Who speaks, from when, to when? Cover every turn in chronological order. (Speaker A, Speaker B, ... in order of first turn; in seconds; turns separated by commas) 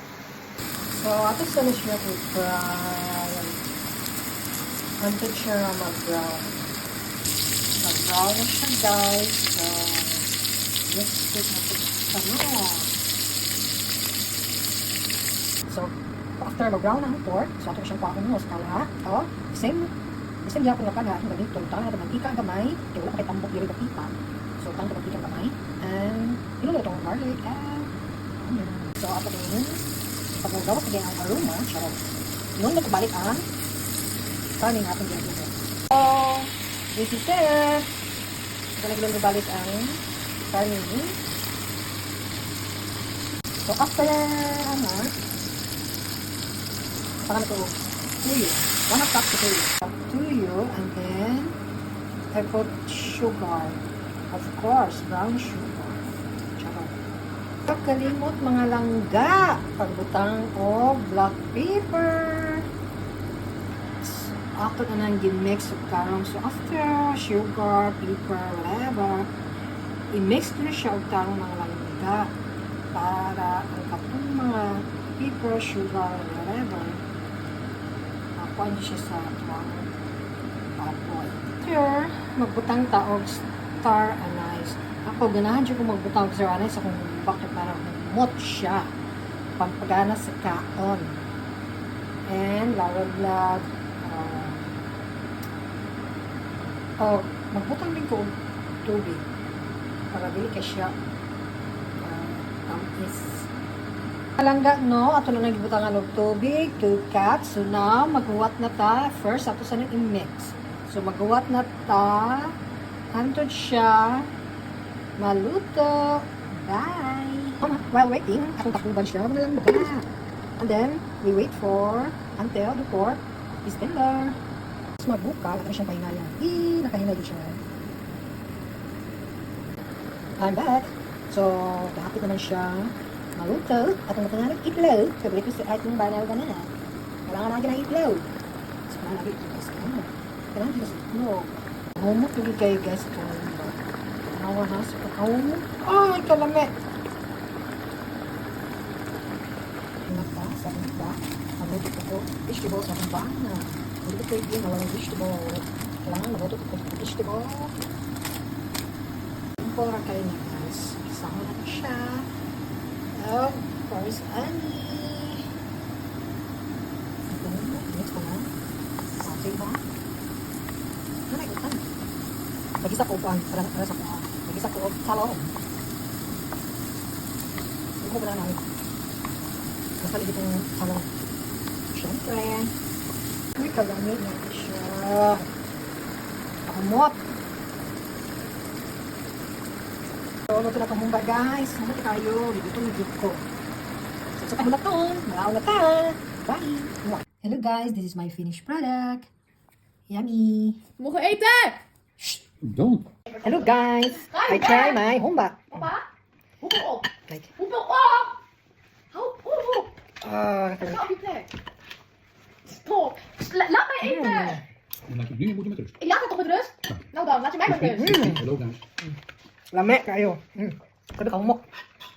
Speaker A: 0.9-3.6, Speaker A: 5.0-6.7, Speaker A: 7.8-10.3, Speaker A: 10.8-12.9, Speaker A: 15.7-19.9, Speaker A: 20.4-32.0, Speaker A: 32.5-33.5, Speaker A: 34.6-35.5, Speaker B: 36.0-36.5, Speaker A: 36.9-37.9, Speaker A: 38.8-41.2, Speaker A: 43.6-45.1, Speaker A: 47.2-51.5, Speaker A: 52.3-56.0, Speaker A: 56.5-56.9, Speaker A: 57.7-62.7, Speaker A: 64.0-69.3, Speaker A: 70.1-72.3, Speaker A: 72.9-77.0, Speaker A: 78.3-79.9, Speaker A: 80.8-88.9, Speaker A: 89.6-91.2, Speaker A: 92.3-94.8, Speaker A: 97.0-99.2, Speaker A: 100.1-100.9, Speaker A: 102.0-103.5, Speaker A: 104.4-112.6, Speaker A: 113.1-114.3, Speaker A: 115.2-120.1, Speaker A: 120.6-124.4, Speaker A: 125.0-127.6, Speaker A: 130.4-136.7, Speaker A: 137.3-138.3, Speaker A: 138.9-146.7, Speaker A: 150.1-157.8, Speaker A: 159.6-162.3, Speaker A: 163.2-165.5, Speaker A: 167.3-168.5, Speaker A: 169.2-169.8, Speaker A: 171.3-171.9, Speaker A: 172.8-175.5, Speaker A: 178.0-178.7, Speaker A: 180.0-181.1, Speaker A: 181.9-182.7, Speaker A: 183.6-185.5, Speaker A: 186.7-187.2, Speaker A: 190.5-193.5, Speaker A: 194.3-199.3, Speaker A: 200.1-200.8, Speaker B: 201.0-201.8, Speaker C: 202.6-203.1, Speaker A: 203.4-205.9, Speaker B: 204.2-205.1, Speaker B: 205.7-206.1, Speaker B: 206.6-208.4, Speaker A: 207.3-207.5, Speaker B: 209.1-210.0, Speaker A: 210.2-211.1, Speaker B: 210.8-211.5, Speaker B: 212.7-214.6, Speaker A: 214.0-214.6, Speaker C: 215.1-215.9, Speaker B: 216.0-218.3, Speaker A: 217.7-218.5, Speaker C: 218.2-218.8, Speaker A: 219.7-221.6